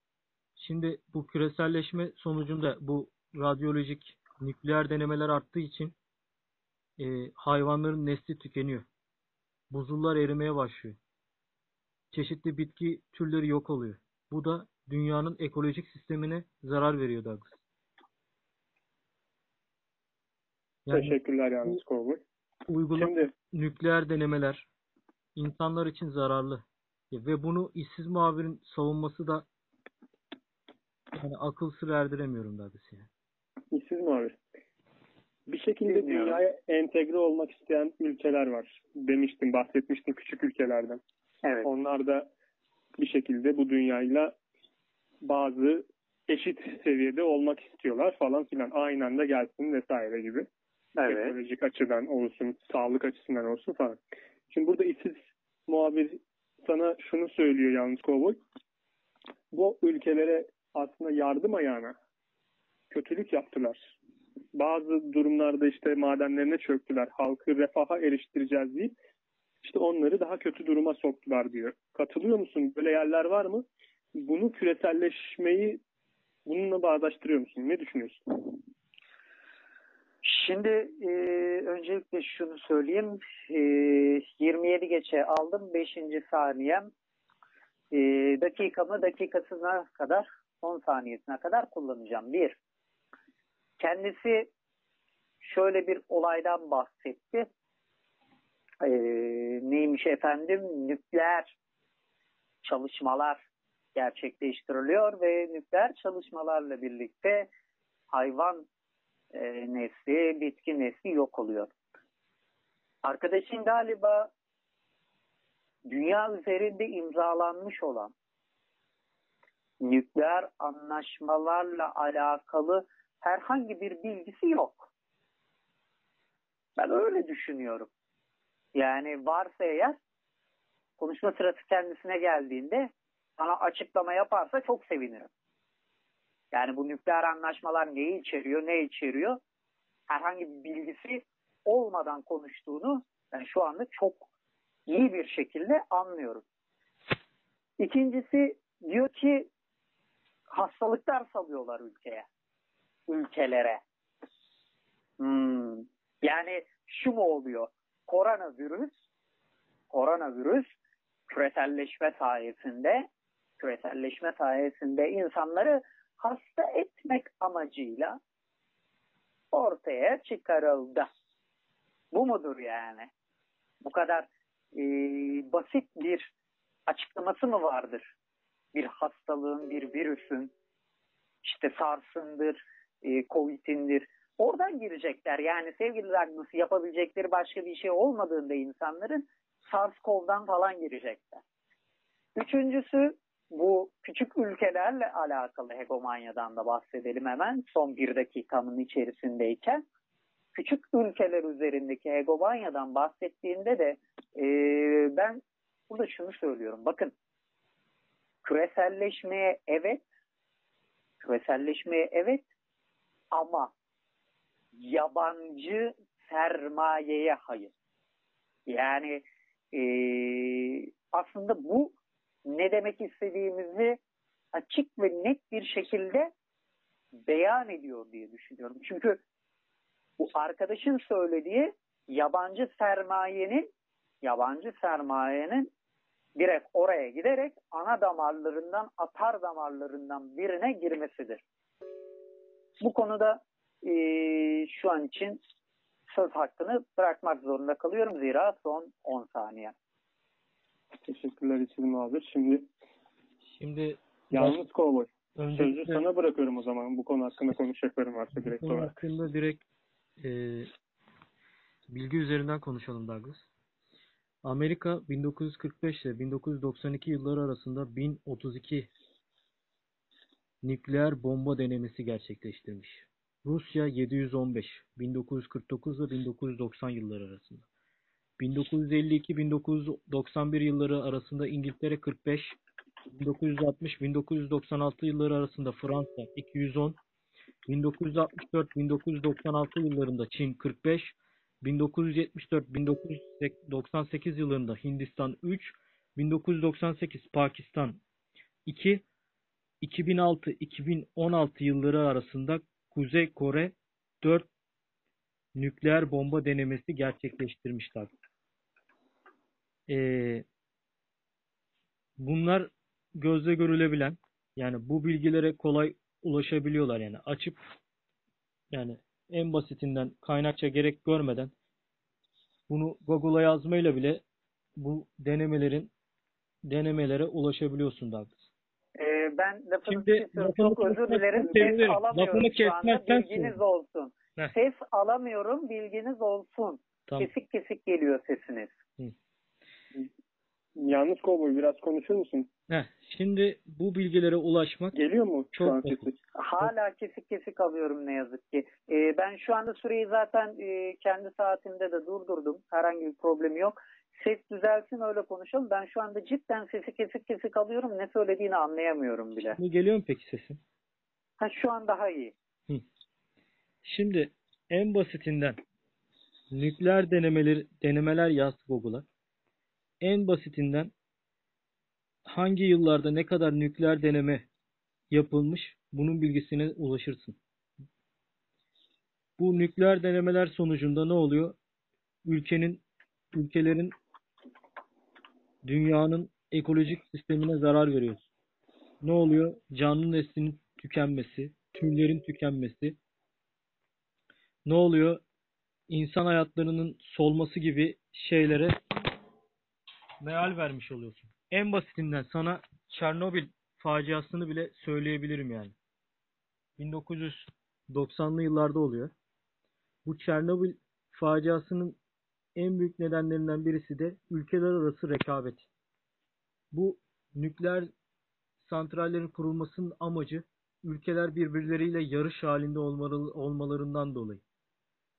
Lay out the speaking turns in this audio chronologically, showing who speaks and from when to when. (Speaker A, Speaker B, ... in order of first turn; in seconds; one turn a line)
Speaker A: 0.6-6.0
Speaker A: 7.0-8.9
Speaker A: 9.7-11.0
Speaker A: 12.1-17.6
Speaker A: 20.9-21.8
Speaker B: 20.9-22.2
Speaker A: 22.7-24.7
Speaker B: 22.9-23.3
Speaker A: 25.4-29.4
Speaker A: 31.1-33.1
Speaker B: 33.7-34.4
Speaker B: 35.5-41.0
Speaker C: 35.9-36.4
Speaker B: 41.6-42.3
Speaker B: 43.0-44.3
Speaker B: 45.2-50.5
Speaker C: 51.0-51.4
Speaker B: 51.0-54.0
Speaker B: 54.5-58.4
Speaker B: 59.5-61.9
Speaker B: 62.9-63.8
Speaker B: 64.5-68.9
Speaker B: 69.6-73.7
Speaker B: 74.2-75.8
Speaker B: 76.5-78.3
Speaker C: 80.2-86.9
Speaker C: 87.9-92.6
Speaker C: 93.8-94.5
Speaker C: 95.4-97.5
Speaker C: 98.8-101.5
Speaker C: 102.6-103.4
Speaker C: 103.9-107.5
Speaker C: 108.1-108.7
Speaker C: 109.3-111.7
Speaker C: 113.0-114.3
Speaker C: 115.8-118.1
Speaker C: 119.8-124.9
Speaker C: 126.8-127.9
Speaker C: 128.7-130.0
Speaker C: 131.0-135.3
Speaker C: 136.5-139.4
Speaker C: 140.1-144.3
Speaker C: 144.9-146.4
Speaker C: 147.8-149.5
Speaker C: 150.5-152.2
Speaker C: 153.1-153.8
Speaker C: 155.2-158.9
Speaker C: 159.9-160.7
Speaker C: 161.3-163.1
Speaker C: 163.6-168.2
Speaker C: 169.5-171.1
Speaker C: 172.1-173.1
Speaker C: 173.8-176.3
Speaker C: 176.9-178.1
Speaker C: 178.7-180.5
Speaker C: 181.4-191.4
Speaker C: 192.3-199.8
Speaker C: 200.5-207.1
Speaker C: 208.4-210.0
Speaker C: 211.2-212.4
Speaker C: 213.3-213.7
Speaker C: 214.7-217.7
Speaker C: 218.7-224.0
Speaker C: 224.5-226.3
Speaker C: 227.2-229.2
Speaker C: 230.2-233.7
Speaker C: 234.2-235.7
Speaker C: 236.3-241.4
Speaker C: 242.8-245.4
Speaker C: 246.1-249.7
Speaker B: 251.1-252.7
Speaker A: 253.5-254.6
Speaker B: 254.3-258.9
Speaker A: 255.3-256.0
Speaker A: 258.3-259.6
Speaker A: 260.2-260.7
Speaker A: 261.9-263.5
Speaker A: 264.4-268.9
Speaker A: 270.6-277.6
Speaker A: 278.4-282.6
Speaker A: 283.1-287.0
Speaker A: 287.7-298.0
Speaker A: 298.6-299.0
Speaker A: 299.8-304.5
Speaker A: 305.6-308.1
Speaker A: 309.9-310.4
Speaker A: 312.2-317.6
Speaker A: 318.7-321.5
Speaker A: 322.7-324.2
Speaker A: 324.8-325.9
Speaker A: 326.6-328.5
Speaker C: 328.9-338.7
Speaker A: 329.9-333.6
Speaker B: 331.4-331.7
Speaker B: 340.8-342.5
Speaker A: 342.7-344.9
Speaker B: 344.9-346.2
Speaker A: 345.5-346.0
Speaker C: 346.3-359.6
Speaker A: 359.5-360.6
Speaker C: 361.4-362.3
Speaker A: 363.8-365.6
Speaker A: 366.5-369.1
Speaker A: 370.0-370.9
Speaker A: 372.2-374.5
Speaker A: 375.1-377.4
Speaker A: 379.4-381.6
Speaker A: 382.2-383.9
Speaker A: 385.6-388.2
Speaker A: 389.0-393.0
Speaker A: 394.6-395.2
Speaker A: 395.9-398.8
Speaker A: 400.2-405.7
Speaker A: 406.8-409.1
Speaker A: 410.1-412.0
Speaker A: 412.6-415.7
Speaker A: 416.7-417.9
Speaker A: 418.6-424.4